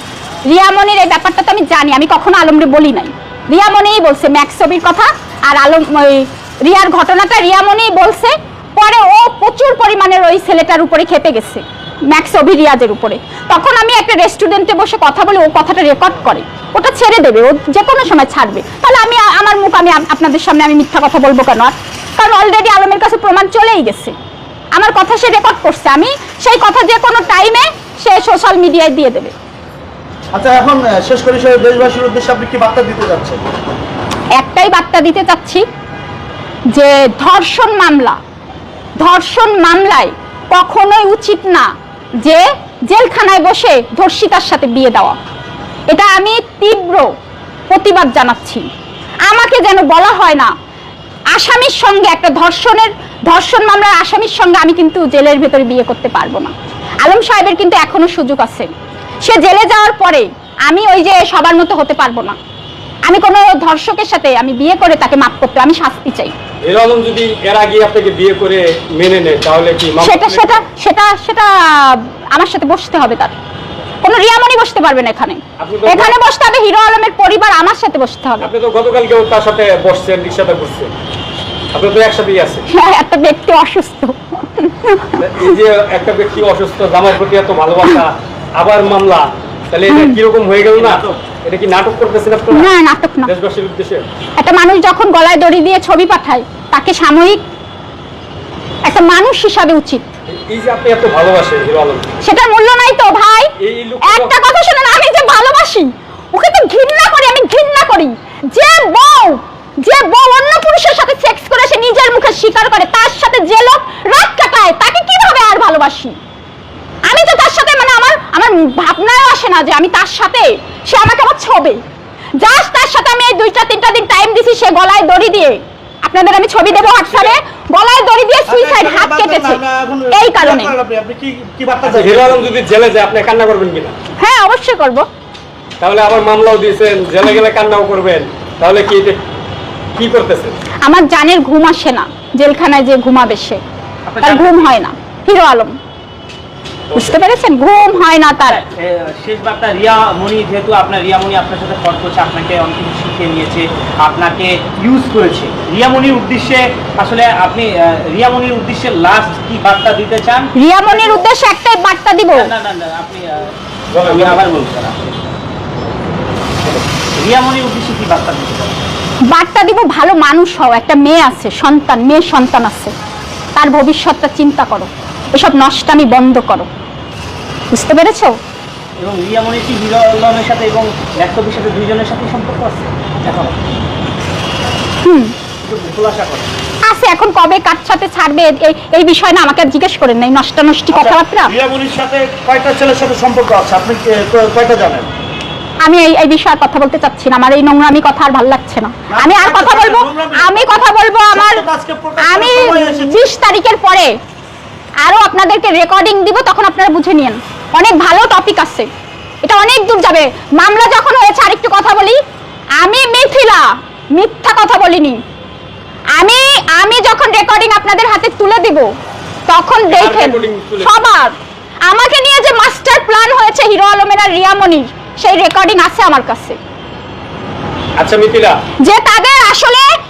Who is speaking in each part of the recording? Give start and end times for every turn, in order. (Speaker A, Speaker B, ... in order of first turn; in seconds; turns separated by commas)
Speaker A: 0.5-24.1, Speaker A: 24.7-29.3, Speaker B: 30.3-33.4, Speaker A: 34.4-35.6, Speaker A: 36.7-38.2, Speaker A: 39.0-41.7, Speaker A: 42.2-45.2, Speaker A: 45.9-47.1, Speaker A: 47.7-48.6, Speaker A: 49.3-50.5, Speaker A: 51.3-58.7, Speaker A: 59.2-62.4, Speaker A: 63.0-66.3, Speaker C: 66.6-70.6, Speaker A: 70.0-73.4, Speaker A: 74.0-78.5, Speaker C: 75.6-76.2, Speaker C: 78.4-80.9, Speaker C: 81.7-82.7, Speaker A: 82.7-85.2, Speaker C: 85.2-92.7, Speaker A: 89.9-90.2, Speaker D: 90.7-91.2, Speaker A: 92.5-93.3, Speaker C: 93.2-94.0, Speaker A: 94.4-97.4, Speaker A: 98.8-100.0, Speaker C: 100.5-102.1, Speaker A: 102.2-103.5, Speaker C: 103.6-104.4, Speaker A: 104.0-116.2, Speaker A: 117.1-121.8, Speaker A: 122.4-129.6, Speaker C: 126.7-127.3, Speaker B: 128.5-132.5, Speaker A: 130.1-130.7, Speaker C: 131.9-133.9, Speaker A: 134.2-135.0, Speaker C: 135.8-139.2, Speaker C: 139.9-140.6, Speaker A: 140.8-143.6, Speaker D: 144.1-144.7, Speaker A: 144.2-145.8, Speaker C: 146.9-147.2, Speaker A: 146.9-148.6, Speaker D: 148.4-161.2, Speaker A: 160.6-162.5, Speaker D: 162.3-165.2, Speaker C: 163.9-164.4, Speaker D: 167.1-168.8, Speaker A: 169.3-172.9, Speaker A: 173.5-176.7, Speaker A: 177.7-178.3, Speaker D: 179.0-183.6, Speaker A: 185.0-185.3, Speaker D: 185.6-186.5, Speaker A: 186.8-191.5, Speaker B: 190.9-195.1, Speaker A: 195.8-201.6, Speaker B: 199.1-203.3, Speaker A: 202.2-204.1, Speaker A: 205.0-208.9, Speaker A: 209.4-212.2, Speaker A: 212.8-215.2, Speaker A: 216.2-218.9, Speaker A: 219.5-221.3, Speaker C: 219.9-221.0, Speaker A: 221.9-226.6, Speaker C: 228.0-228.6, Speaker A: 228.8-229.9